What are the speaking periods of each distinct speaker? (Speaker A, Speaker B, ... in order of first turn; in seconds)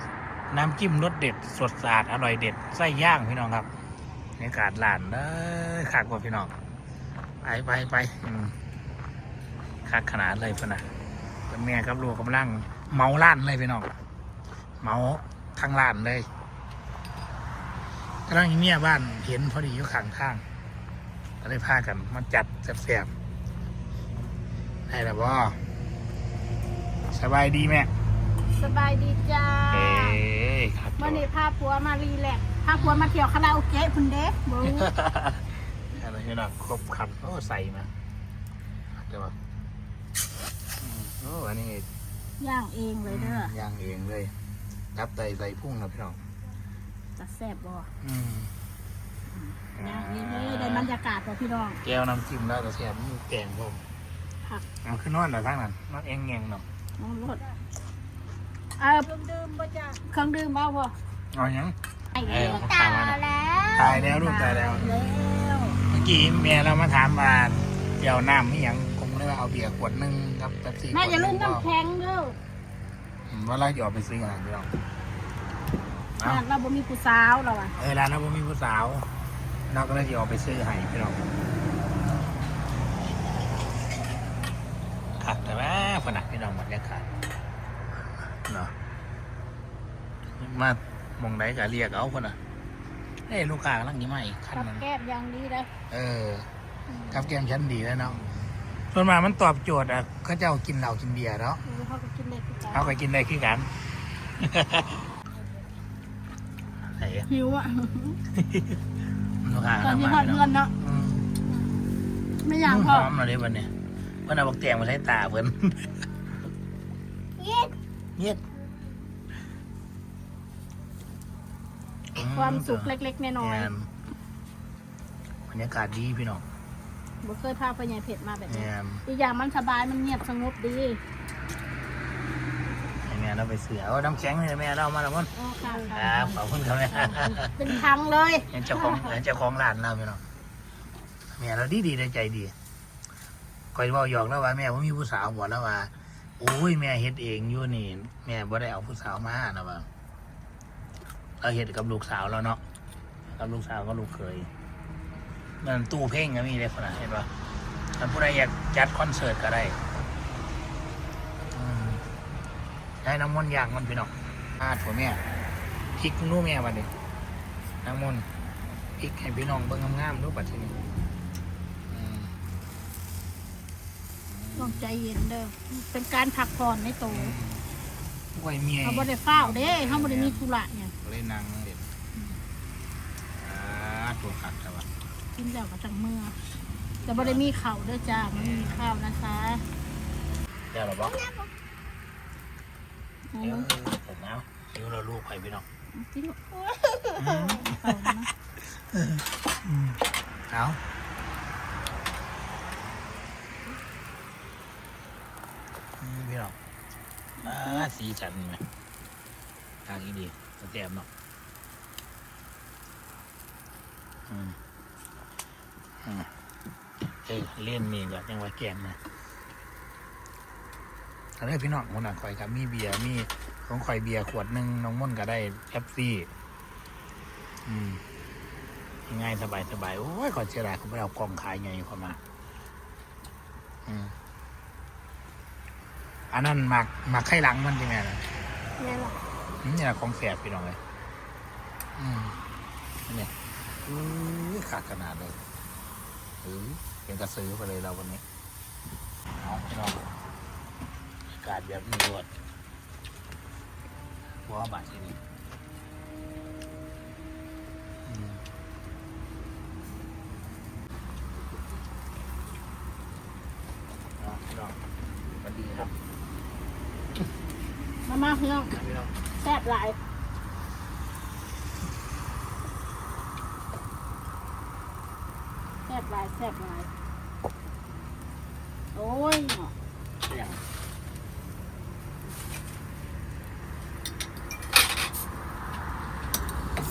Speaker A: 0.5-3.7, 4.4-6.5, 7.4-8.6, 9.8-10.9, 11.5-13.9, 14.8-16.3, 18.3-20.4, 21.4-23.1, 24.9-25.6, 27.1-27.9, 29.7-31.2, 32.7-33.1, 34.6-37.9, 39.0-39.3, 40.8-41.9, 43.0-44.3, 44.9-46.2, 48.0-48.5, 49.8-50.9, 51.8-53.8, 54.8-56.6, 61.3-63.2, 63.7-65.0, 65.8-71.6, 73.3-74.7, 76.2-76.4, 77.8-79.1, 79.7-81.2, 85.2-87.0, 88.4-88.7, 90.4-92.4, 93.3-94.8, 95.9-96.5, 97.1-98.2, 98.9-101.6, 102.7-103.7, 104.4-105.0, 107.0-107.3, 108.3-108.8, 109.4-111.3, 112.6-113.7, 114.2-115.9, 118.2-118.4, 122.1-123.9, 125.5-126.4, 128.5-129.0, 133.0-135.3, 135.9-137.8, 138.5-140.2, 141.3-142.5, 143.7-149.9, 151.4-152.6, 153.3-154.5, 155.6-157.3, 157.9-159.8, 161.5-162.0, 163.0-165.2, 165.9-166.9, 167.8-168.2, 169.0-170.7, 171.9-172.3, 174.3-175.0, 177.1-177.7, 178.3-180.4, 181.0-181.9, 183.3-184.9, 187.0-187.5, 188.3-188.8, 190.7-191.2, 193.4-195.6, 197.2-200.0, 200.5-200.8, 206.0-206.6, 207.4-208.7, 209.8-211.1, 214.3-214.6, 216.0-216.3, 217.2-219.0, 221.4-226.3, 227.6-228.0, 229.1-232.2, 233.8-234.1, 236.3-238.2, 239.6-240.8, 242.0-242.4, 243.8-245.4, 246.4-248.2, 249.4-250.0, 251.3-252.3, 254.4-255.2, 258.1-258.4, 264.2-264.8, 265.4-265.9, 268.7-269.1, 280.3-280.6
Speaker B: 28.6-30.2, 31.0-34.9, 42.4-43.5, 47.2-47.9, 49.3-51.8, 57.0-57.4, 58.8-60.9, 62.1-65.8, 70.9-72.4, 76.2-77.8, 94.5-95.7, 96.9-97.2, 101.6-102.9, 107.3-108.2, 109.8-110.7, 112.4-113.1, 117.4-117.7, 122.2-123.7, 127.2-131.0, 135.3-136.4, 136.9-139.2, 174.6-177.3, 178.8-180.9, 185.3-186.4, 187.0-189.6, 191.1-191.5, 193.3-193.7, 195.9-198.3, 207.5-207.8, 238.8-239.2, 268.0-268.7, 269.4-270.0, 275.9-276.9, 278.9-279.7